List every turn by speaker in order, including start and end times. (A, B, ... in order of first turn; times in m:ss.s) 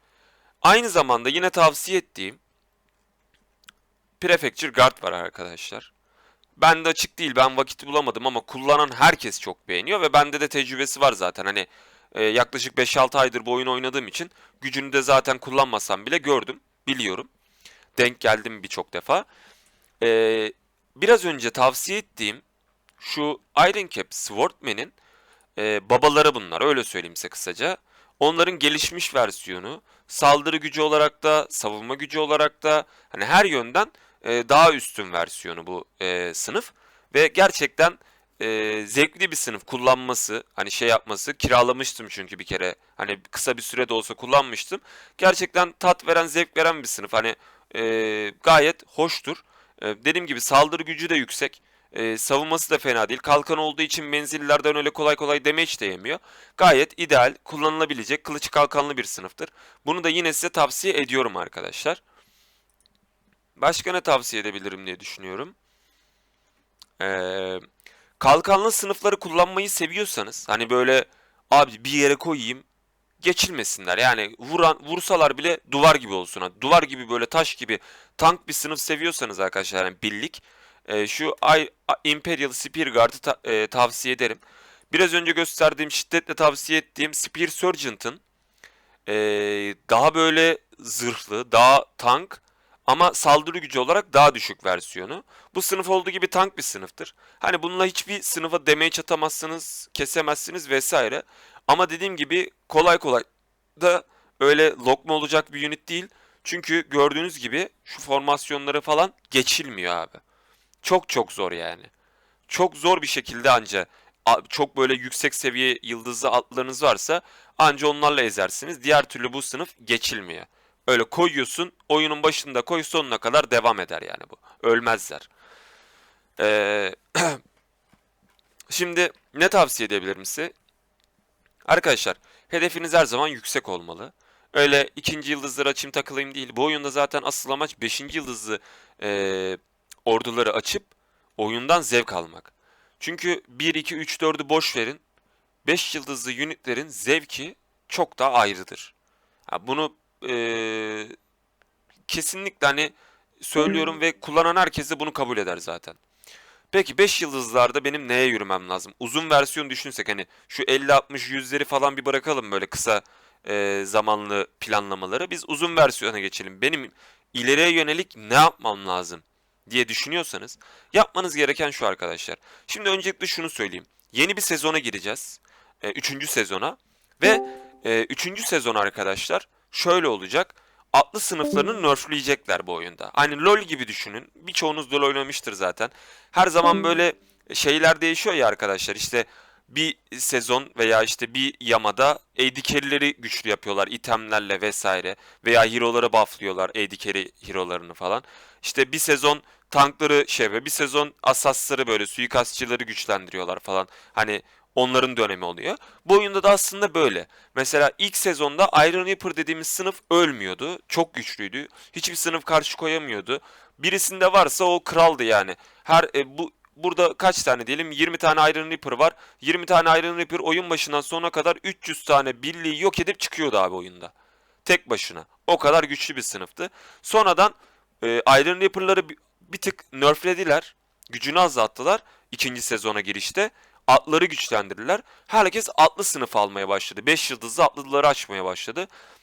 0:00.6-0:02.4 A
0:04.2-0:05.9 A
0:06.6-0:17.3 A
0:18.0-0:19.3 A
0:20.0-0:22.4 A
0:23.0-0:24.9 A
0:25.6-1:02.0 A
1:03.6-1:05.6 A
1:07.0-1:07.6 A
1:08.2-1:12.6 A
1:13.2-1:28.2 A
1:29.1-1:50.2 A
1:50.8-1:51.9 A
1:52.5-2:05.3 A
2:06.4-2:07.4 A
2:08.7-2:10.5 A
2:11.6-2:25.0 A
2:25.6-2:28.9 A
2:29.5-2:31.2 A
2:32.1-2:36.0 A
2:36.7-3:44.1 A
3:44.6-3:58.9 A